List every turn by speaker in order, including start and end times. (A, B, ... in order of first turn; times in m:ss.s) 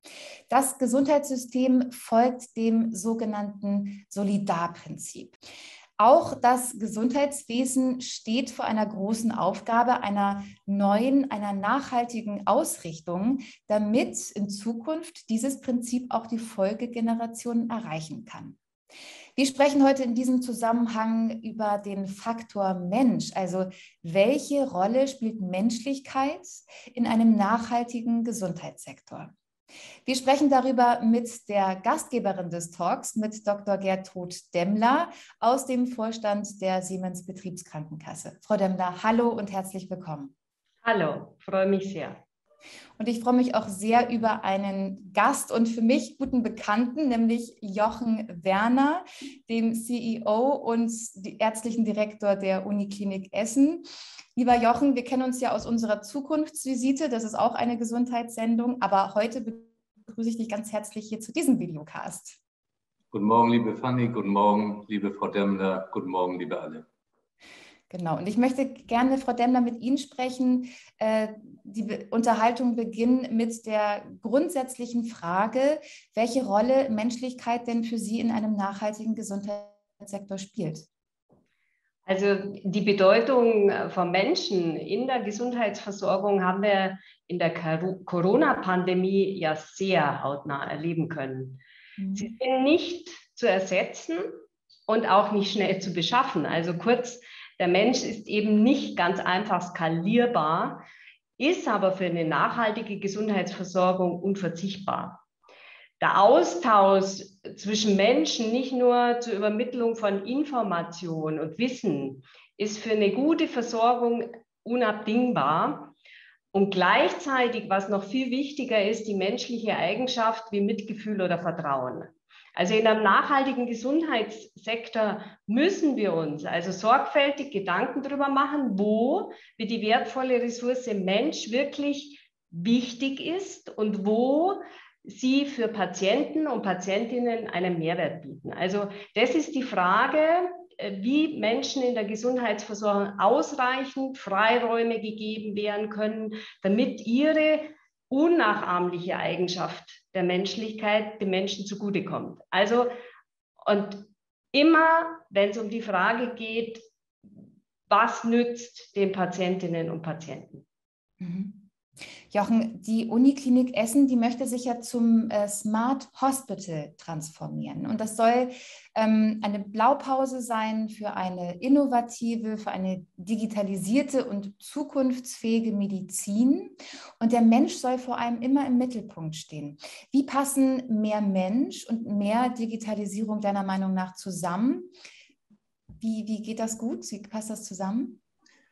0:00.5-0:05.3 A
0:06.0-0:18.6 A
0:19.3-0:29.3 A
0:30.0-0:40.3 A
0:40.8-0:42.2 B
0:43.0-1:02.4 A
1:03.1-1:06.8 C
1:07.9-1:20.9 A
1:22.0-1:31.6 B
1:32.0-1:32.3 A
1:32.1-1:34.2 B
1:34.9-1:40.8 B
1:41.4-1:45.2 B
1:46.0-1:55.9 B
1:56.5-2:32.9 B
2:33.6-2:36.8 B
2:37.9-2:40.6 B
2:41.2-2:41.6 A
2:42.3-3:04.9 A
3:06.0-3:08.2 A